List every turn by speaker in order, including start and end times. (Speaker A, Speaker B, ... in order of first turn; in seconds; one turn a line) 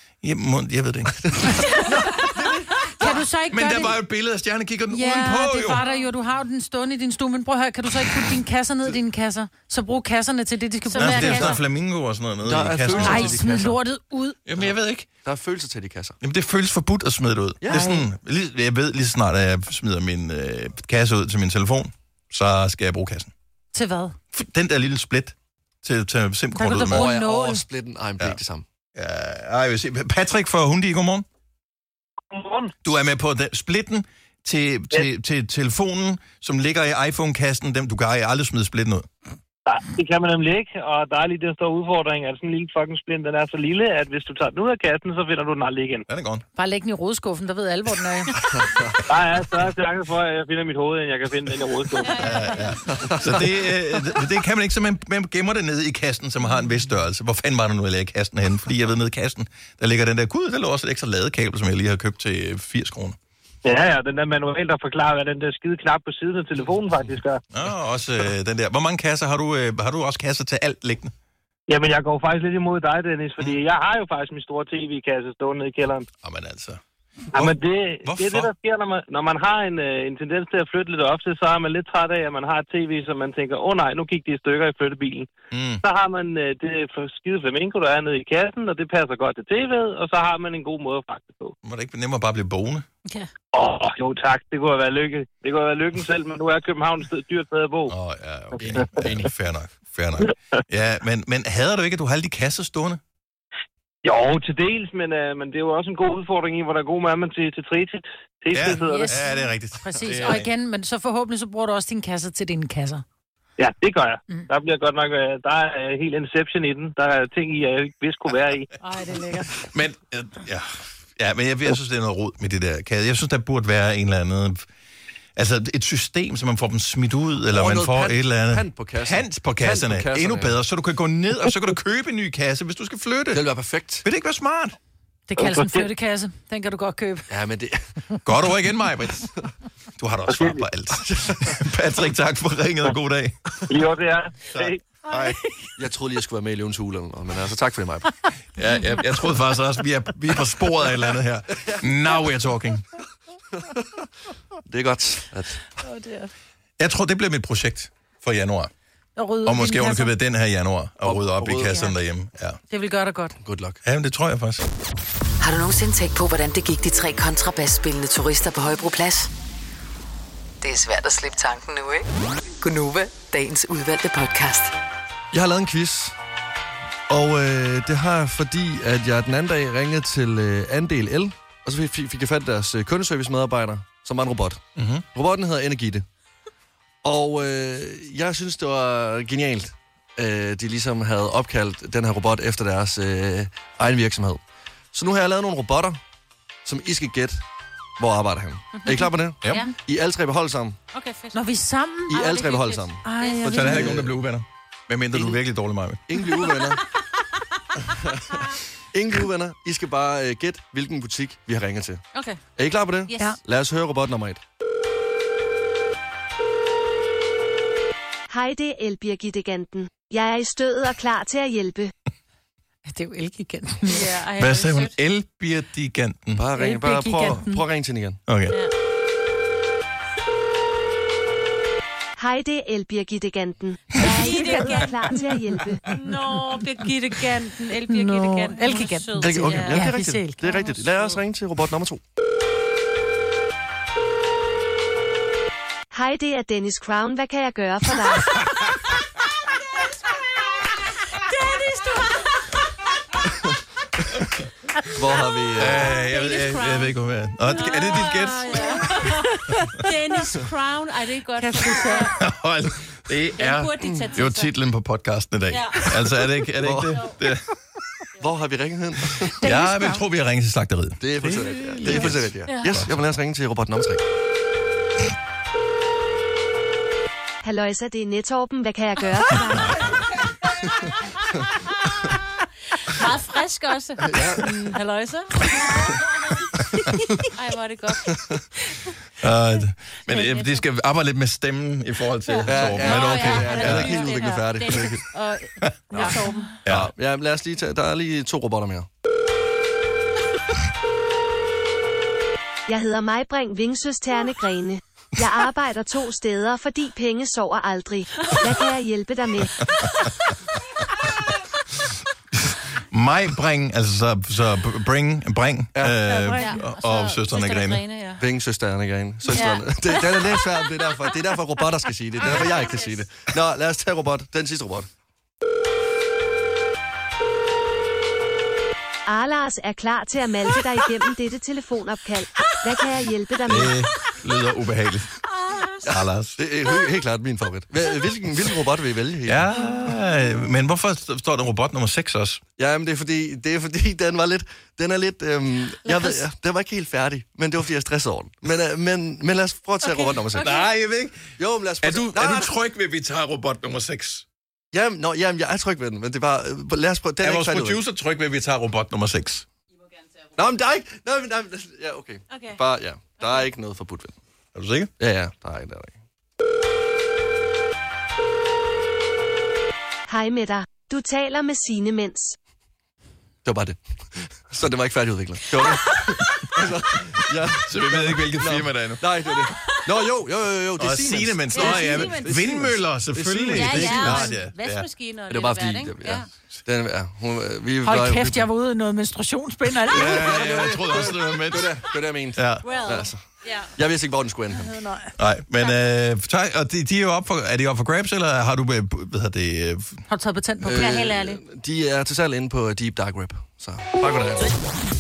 Speaker A: 0.2-1.6
Speaker B: 3.0-4.0
Speaker A: 3.5-5.8
Speaker B: 4.9-11.6
Speaker C: 10.9-11.6
Speaker A: 10.9-13.7
Speaker D: 12.4-13.7
Speaker B: 12.9-14.4
Speaker A: 14.4-15.1
Speaker D: 15.2-16.2
Speaker A: 16.2-23.3
Speaker D: 17.6-17.9
Speaker B: 17.7-18.1
Speaker B: 23.7-24.1
Speaker A: 24.3-27.1
Speaker B: 26.6-27.6
Speaker D: 26.9-28.6
Speaker A: 28.9-31.3
Speaker E: 32.3-32.7
Speaker A: 32.8-39.1
Speaker E: 39.7-46.0
Speaker A: 46.1-46.4
Speaker B: 46.5-48.4
Speaker D: 48.5-49.0
Speaker E: 49.0-52.3
Speaker C: 52.0-52.7
Speaker A: 52.2-63.2
Speaker D: 52.9-53.5
Speaker E: 63.6-67.4
Speaker A: 67.5-71.1
Speaker E: 71.7-76.1
Speaker A: 76.2-76.8
Speaker A: 77.3-78.5
Speaker E: 77.3-85.3
Speaker A: 85.5-85.8
Speaker E: 85.8-91.5
Speaker A: 91.6-92.9
Speaker E: 93.5-97.9
Speaker A: 97.9-103.0
Speaker D: 98.6-99.3
Speaker E: 98.6-99.2
Speaker E: 100.2-100.6
Speaker E: 104.0-109.2
Speaker A: 108.5-110.5
Speaker B: 108.8-113.0
Speaker E: 113.6-118.7
Speaker B: 118.8-119.6
Speaker A: 119.7-124.7
Speaker A: 125.4-133.4
Speaker D: 127.5-130.6
Speaker D: 133.3-134.0
Speaker A: 134.0-134.8
Speaker B: 135.3-137.3
Speaker E: 135.4-135.9
Speaker D: 137.3-137.8
Speaker A: 138.2-139.3
Speaker A: 140.0-143.4
Speaker E: 140.3-140.6
Speaker D: 141.0-141.6
Speaker E: 143.7-144.8
Speaker A: 144.5-145.4
Speaker B: 145.1-145.5
Speaker D: 145.8-148.1
Speaker A: 148.6-152.9
Speaker D: 153.5-154.1
Speaker D: 154.7-155.8
Speaker B: 155.8-156.3
Speaker A: 156.8-158.7
Speaker B: 159.2-160.1
Speaker A: 159.4-162.6
Speaker D: 161.0-161.8
Speaker B: 162.7-163.4
Speaker D: 163.4-163.8
Speaker A: 163.8-164.7
Speaker F: 165.4-169.3
Speaker F: 170.6-172.1
Speaker F: 172.6-174.7
Speaker D: 175.3-176.1
Speaker D: 177.1-184.6
Speaker A: 184.8-185.1
Speaker D: 185.1-186.1
Speaker D: 187.0-194.4
Speaker D: 194.9-196.0
Speaker D: 196.6-197.4
Speaker D: 198.0-200.8
Speaker C: 198.7-199.7
Speaker C: 200.9-201.4
Speaker B: 201.3-202.2
Speaker D: 202.1-204.2
Speaker C: 202.1-203.6
Speaker B: 203.0-203.9
Speaker A: 203.5-206.0
Speaker D: 206.1-206.8
Speaker D: 207.9-208.2
Speaker D: 208.9-212.0
Speaker C: 212.1-212.4
Speaker D: 212.6-214.4
Speaker C: 213.1-213.3
Speaker G: 218.3-221.9
Speaker B: 222.9-224.1
Speaker C: 223.9-224.9
Speaker A: 224.4-226.4
Speaker D: 226.3-228.2
Speaker B: 226.6-227.6
Speaker A: 228.3-228.6
Speaker G: 232.2-235.9
Speaker C: 233.9-235.2
Speaker B: 234.0-235.3
Speaker C: 236.0-239.9
Speaker B: 237.9-240.6
Speaker D: 239.2-242.0
Speaker C: 240.5-241.2
Speaker G: 245.9-248.4
Speaker C: 251.2-252.5
Speaker D: 254.9-255.9
Speaker A: 255.6-259.1
Speaker C: 255.8-256.9
Speaker C: 257.5-262.1
Speaker B: 258.9-259.5
Speaker B: 261.4-262.1
Speaker A: 262.2-267.4
Speaker C: 263.4-264.5
Speaker C: 265.5-265.8
Speaker D: 266.6-267.0
Speaker D: 268.2-269.4
Speaker A: 269.4-272.9
Speaker B: 269.4-270.0
Speaker D: 271.0-274.0
Speaker C: 271.9-272.7
Speaker G: 277.4-279.8
Speaker C: 282.8-286.5
Speaker D: 284.1-284.4
Speaker C: 287.3-288.9
Speaker D: 288.1-288.4
Speaker A: 289.2-294.1
Speaker C: 290.1-290.6
Speaker C: 292.3-296.5
Speaker D: 292.4-295.0
Speaker D: 295.9-298.9
Speaker B: 295.9-296.4
Speaker A: 296.6-296.9
Speaker G: 302.7-309.6
Speaker A: 312.4-317.8
Speaker B: 316.1-316.6
Speaker C: 316.3-318.2
Speaker D: 318.2-324.9
Speaker C: 319.3-320.3
Speaker C: 322.2-323.0
Speaker G: 329.1-333.7
Speaker A: 333.5-335.1
Speaker C: 335.2-335.9
Speaker D: 335.9-339.4
Speaker A: 335.9-336.4
Speaker A: 339.3-342.4
Speaker D: 342.6-350.6
Speaker A: 350.4-351.3
Speaker D: 351.4-352.5
Speaker A: 351.8-354.2
Speaker D: 354.7-357.8
Speaker A: 357.2-359.4
Speaker D: 360.4-364.1
Speaker C: 362.3-362.6
Speaker A: 364.6-364.9
Speaker D: 365.0-365.9
Speaker G: 370.1-372.4
Speaker D: 373.4-384.4
Speaker C: 375.5-376.0
Speaker A: 377.6-379.0
Speaker A: 380.8-384.9
Speaker C: 381.5-382.3
Speaker C: 383.5-386.3
Speaker D: 385.3-388.5
Speaker B: 387.8-390.3
Speaker D: 389.9-394.7
Speaker A: 389.9-391.8
Speaker A: 392.3-392.6
Speaker C: 392.6-393.7
Speaker B: 394.5-395.1
Speaker A: 395.2-400.0
Speaker B: 400.1-400.9
Speaker D: 400.6-404.6
Speaker C: 400.7-401.4